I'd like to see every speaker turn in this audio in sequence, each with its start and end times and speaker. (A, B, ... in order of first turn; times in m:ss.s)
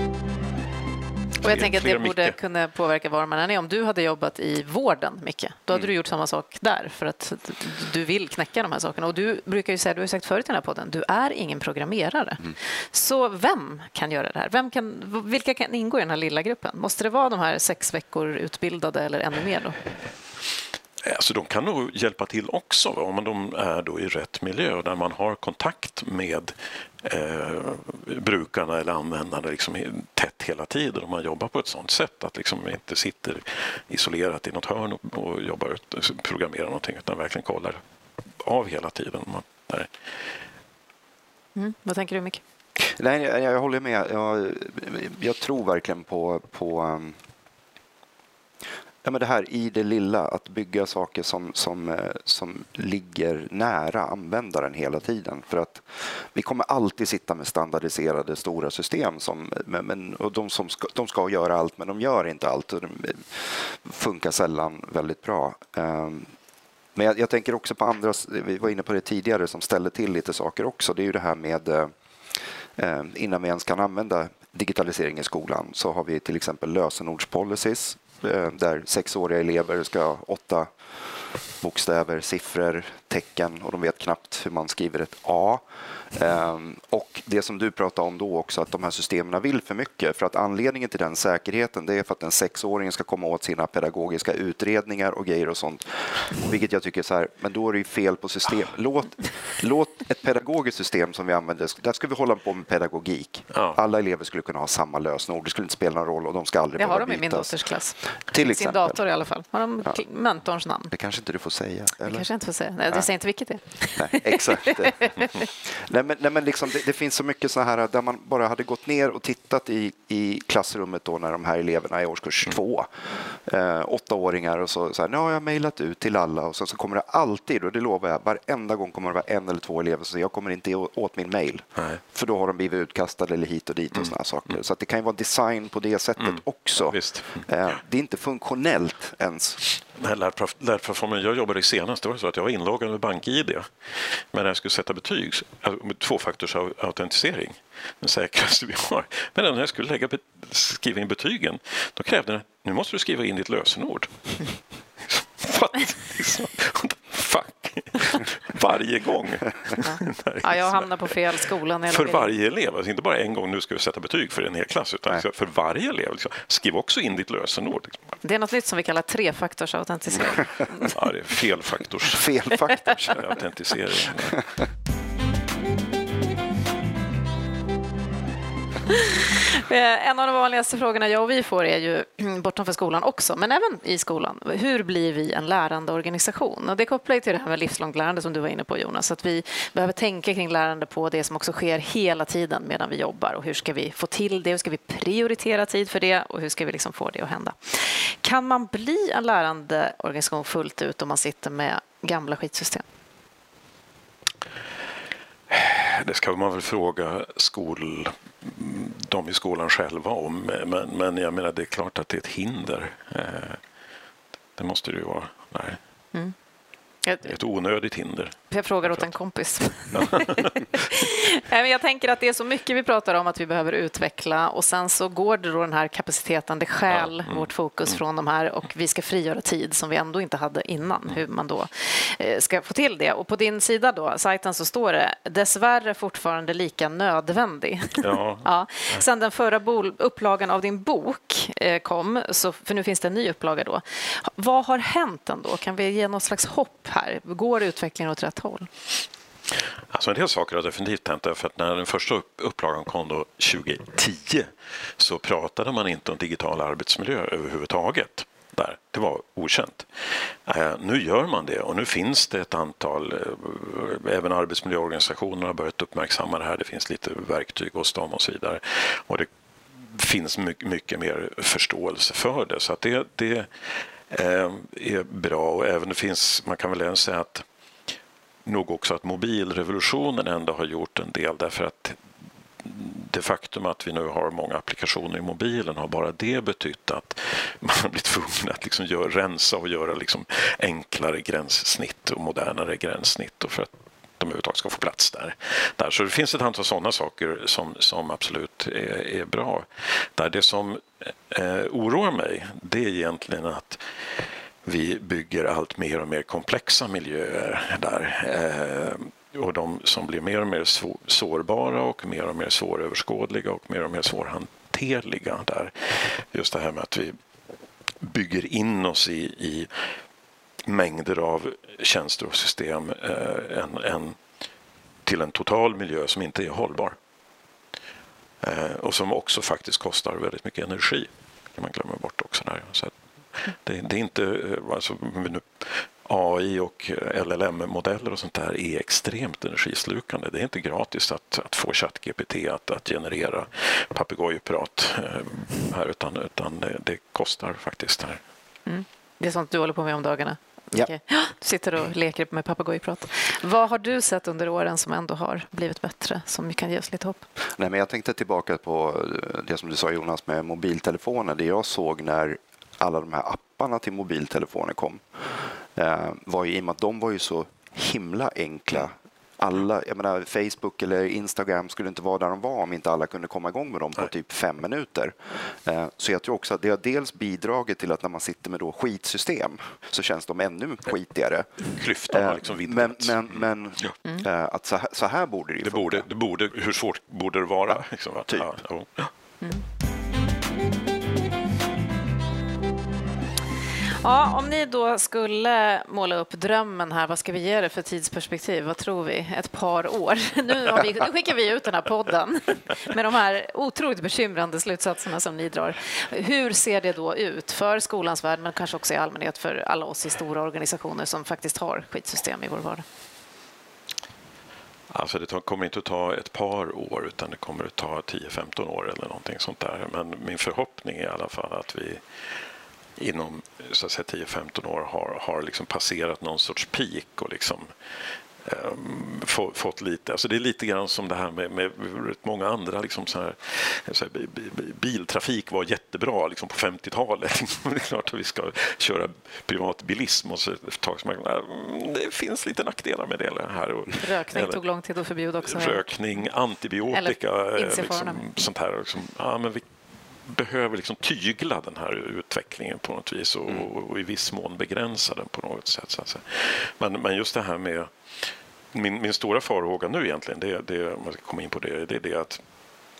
0:01.4-0:19.8 A
0:01.4-0:02.4 B
0:21.0-0:37.8 B
0:38.4-0:39.9 B
0:41.6-0:42.4 A
0:42.8-0:47.2 C
0:49.0-1:06.3 C
1:06.9-1:11.9 C
1:12.8-1:20.7 C
1:21.6-1:47.5 C
1:46.8-1:50.9 A
1:48.3-1:49.0 C
1:50.9-1:52.2 C
1:52.1-1:55.3 A
1:54.0-2:19.7 C
2:16.9-2:17.5 B
2:20.0-2:34.5 B
2:35.1-2:41.2 B
2:39.8-2:42.3 A
2:41.9-2:48.1 B
2:48.2-2:50.9 A
2:50.9-2:54.4 B
2:52.1-2:53.1 C
2:58.9-3:22.8 A
3:25.5-3:33.6 B
3:34.6-3:35.8 B
3:37.0-3:37.3 A
3:37.2-3:39.0 B
3:38.5-4:08.7 A
3:39.9-3:40.5 B
3:46.9-3:47.9 B
3:58.0-3:59.0 B
4:09.9-4:19.9 B
4:20.4-4:29.3 B
4:29.8-4:37.4 B
4:38.4-4:42.0 B
4:42.6-5:03.8 B
5:04.6-5:17.2 B
5:18.0-5:19.7 B
5:20.6-5:24.2 B
5:25.0-5:27.0 B
5:28.4-5:48.2 B
5:48.6-5:57.2 A
5:57.6-6:05.0 C
6:05.7-6:26.0 C
6:21.8-6:23.9 B
6:25.6-6:29.1 B
6:27.7-6:28.5 C
6:34.0-6:52.8 A
6:54.9-7:02.0 B
7:03.0-7:07.7 B
7:08.4-7:24.6 B
7:24.0-7:25.9 A
7:25.4-7:29.7 B
7:26.9-7:28.3 A
7:30.2-7:37.9 B
7:38.7-7:42.4 B